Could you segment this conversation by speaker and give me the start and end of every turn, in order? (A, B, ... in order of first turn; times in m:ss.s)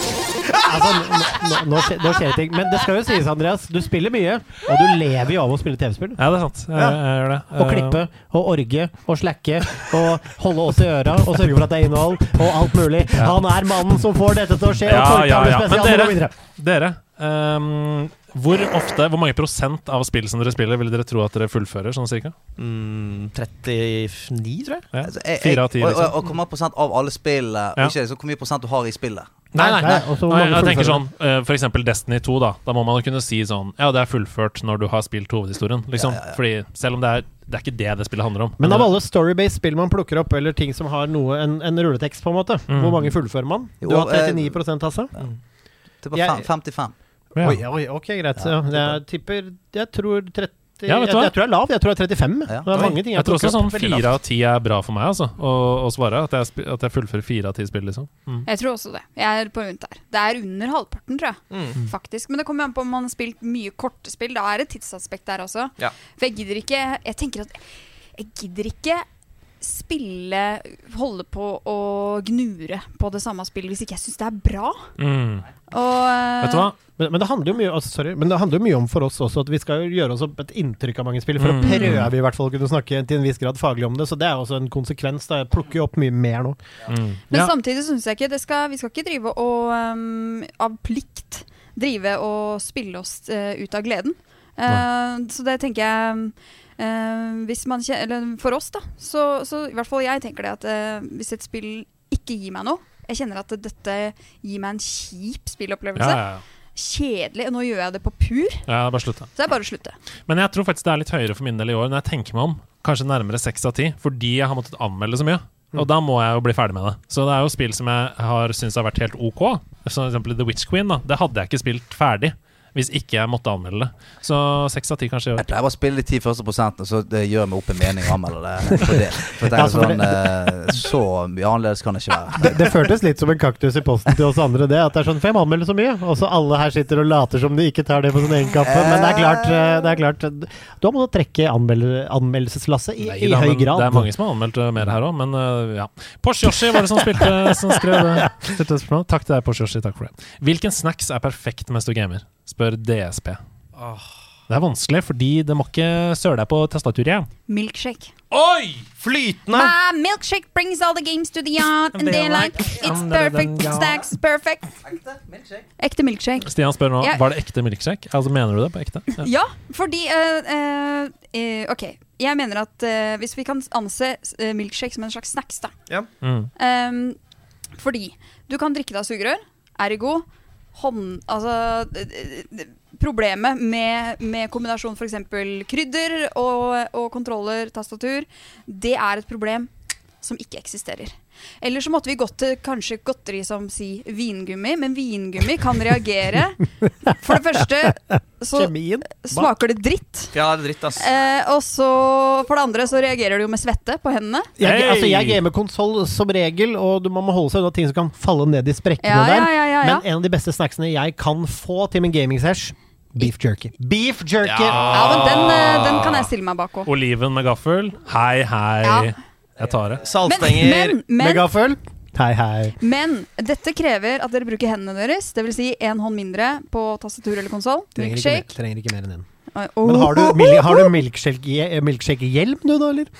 0:00.6-0:06.2 A
0:06.2-0:08.0 B
0:07.5-0:16.3 A
0:13.2-0:13.4 B
0:14.8-0:22.4 B
0:22.6-0:24.9 C
0:24.9-0:26.2 B
0:25.0-0:29.4 D
0:29.5-0:38.9 B
0:29.6-0:31.0 A
0:36.0-0:36.4 D
0:38.6-0:45.1 A
0:42.7-0:43.1 B
0:43.8-0:44.6 D
0:46.0-0:46.9 D
0:46.1-0:46.5 A
0:47.4-0:47.6 B
0:47.4-0:54.1 A
0:48.4-0:48.9 D
0:50.8-0:51.3 B
0:52.5-0:52.9 D
0:52.8-0:58.5 B
0:58.4-1:07.6 E
1:01.5-1:01.8 C
1:08.2-1:09.0 E
1:09.6-1:14.9 E
1:15.0-1:15.5 B
1:15.7-1:16.7 E
1:16.4-1:16.8 B
1:17.0-1:26.6 A
1:21.4-1:22.1 B
1:21.6-1:22.0 E
1:26.9-1:27.5 B
1:27.3-1:46.2 E
1:46.0-1:46.4 B
1:46.8-1:48.6 E
1:48.7-1:49.3 B
1:49.4-1:50.0 E
1:50.3-2:05.4 B
2:05.4-2:12.7 D
2:08.7-2:10.8 A
2:12.3-2:24.1 A
2:18.6-2:19.8 D
2:23.0-2:33.4 B
2:27.2-2:28.3 A
2:33.8-2:34.0 C
2:34.5-2:37.3 B
2:37.5-2:38.1 E
2:38.3-2:38.9 B
2:39.0-2:39.7 C
2:39.5-2:44.7 E
2:41.9-2:44.1 B
2:44.8-2:45.6 D
2:45.8-2:47.2 E
2:46.4-2:49.3 B
2:49.2-2:55.7 E
2:56.2-2:56.5 B
2:56.6-2:57.2 E
2:57.8-3:09.7 E
3:10.2-3:20.3 E
3:18.5-3:19.5 A
3:20.3-3:21.1 C
3:21.0-3:24.5 E
3:24.6-3:34.8 A
3:24.6-3:25.4 B
3:29.0-3:30.0 E
3:34.4-3:35.2 C
3:34.7-3:36.2 B
3:34.9-3:36.9 E
3:36.8-3:40.1 B
3:38.8-3:39.1 E
3:40.0-3:41.0 C
3:40.2-3:41.5 E
3:41.2-3:42.8 A
3:42.8-3:48.5 E
3:48.0-3:49.3 A
3:49.5-3:50.9 E
3:49.8-3:53.1 A